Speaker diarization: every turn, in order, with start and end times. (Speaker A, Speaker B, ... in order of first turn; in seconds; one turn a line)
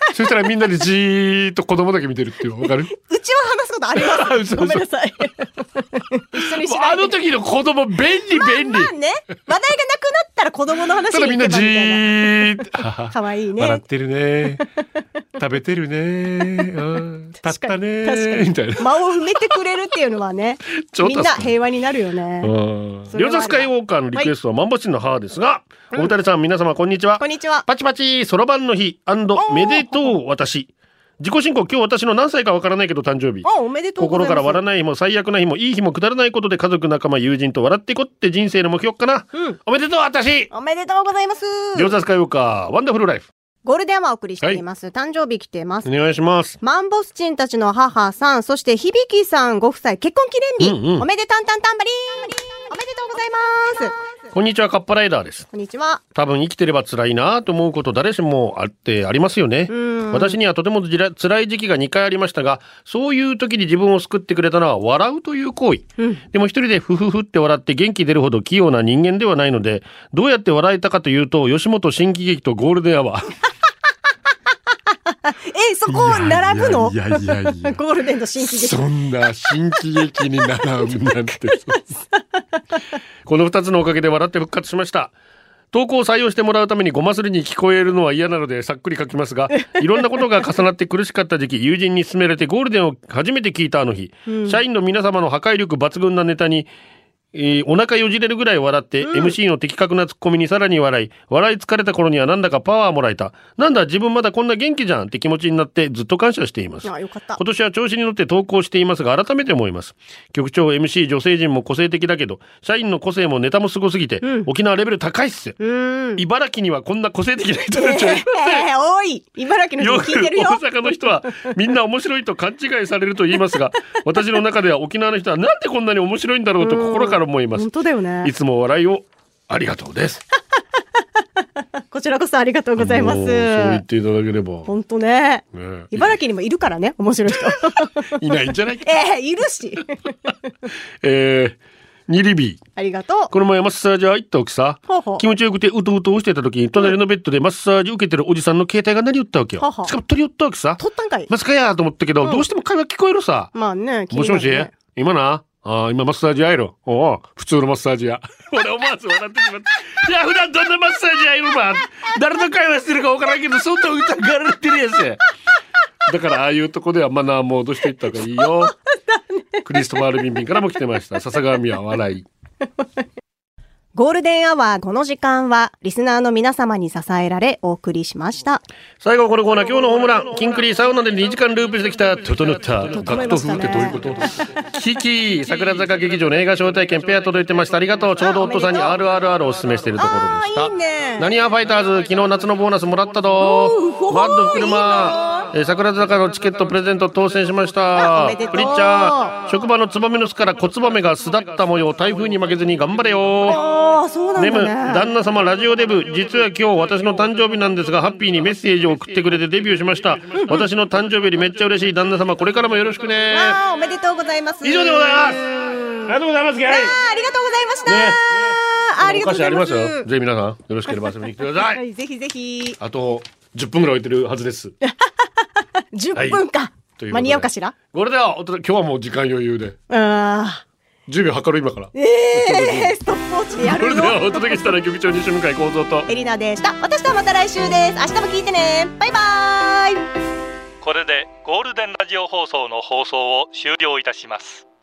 Speaker A: 0.1-2.9
Speaker B: 2.6-7.2
Speaker A: 4.0-4.8
Speaker A: 6.3-8.9
Speaker B: 8.3-12.5
Speaker A: 11.1-14.6
Speaker B: 13.1-13.8
Speaker A: 15.4-18.9
Speaker B: 17.4-22.5
Speaker A: 20.8-21.5
Speaker A: 22.4-33.5
Speaker B: 23.1-24.3
Speaker B: 27.2-27.6
Speaker B: 29.4-30.1
Speaker B: 33.4-34.6
Speaker A: 34.0-40.5
Speaker B: 40.5-41.9
Speaker A: 41.7-43.3
Speaker B: 43.6-45.9
Speaker A: 45.8-46.6
Speaker B: 46.6-54.0
Speaker A: 50.6-51.1
Speaker A: 54.3-55.5
Speaker B: 55.5-56.0
Speaker A: 56.1-73.3
Speaker B: 59.7-60.4
Speaker B: 75.3-78.8
Speaker A: 75.9-77.8
Speaker A: 78.4-81.8
Speaker B: 81.0-82.4
Speaker A: 83.2-85.1
Speaker A: 85.7-96.7
Speaker B: 89.5-90.2
Speaker B: 94.2-94.6
Speaker A: 97.3-115.6
Speaker B: 99.0-99.3
Speaker B: 106.8-107.4
Speaker B: 114.2-114.5
Speaker B: 115.6-116.2
Speaker A: 116.2-118.7
Speaker B: 117.7-120.6
Speaker A: 119.8-127.7
Speaker B: 126.6-128.3
Speaker A: 128.2-130.2
Speaker B: 131.9-133.8
Speaker A: 132.8-134.7
Speaker B: 134.7-138.2
Speaker A: 135.5-136.2
Speaker A: 137.5-138.9
Speaker B: 138.8-140.1
Speaker A: 141.0-142.6
Speaker B: 142.8-143.3
Speaker A: 143.3-153.5
Speaker B: 144.9-145.2
Speaker B: 149.6-149.9
Speaker B: 150.8-151.3
Speaker B: 153.5-154.7
Speaker A: 154.1-165.2
Speaker A: 166.1-168.7
Speaker A: 169.6-172.2
Speaker B: 173.9-178.6
Speaker A: 179.0-203.6
Speaker B: 182.9-184.3
Speaker B: 188.2-189.0
Speaker B: 190.0-191.3
Speaker B: 193.4-195.5
Speaker B: 197.9-199.4
Speaker B: 203.4-205.1
Speaker A: 204.4-213.6
Speaker B: 213.3-215.3
Speaker A: 214.6-217.0
Speaker B: 216.7-220.1
Speaker A: 217.8-221.8
Speaker B: 221.6-222.8
Speaker A: 222.8-224.7
Speaker B: 225.9-227.7
Speaker A: 226.1-226.4
Speaker A: 227.0-229.8
Speaker B: 229.9-230.6
Speaker A: 231.1-233.0
Speaker B: 231.9-234.6
Speaker A: 233.6-236.1
Speaker B: 236.1-240.1
Speaker C: 240.8-244.7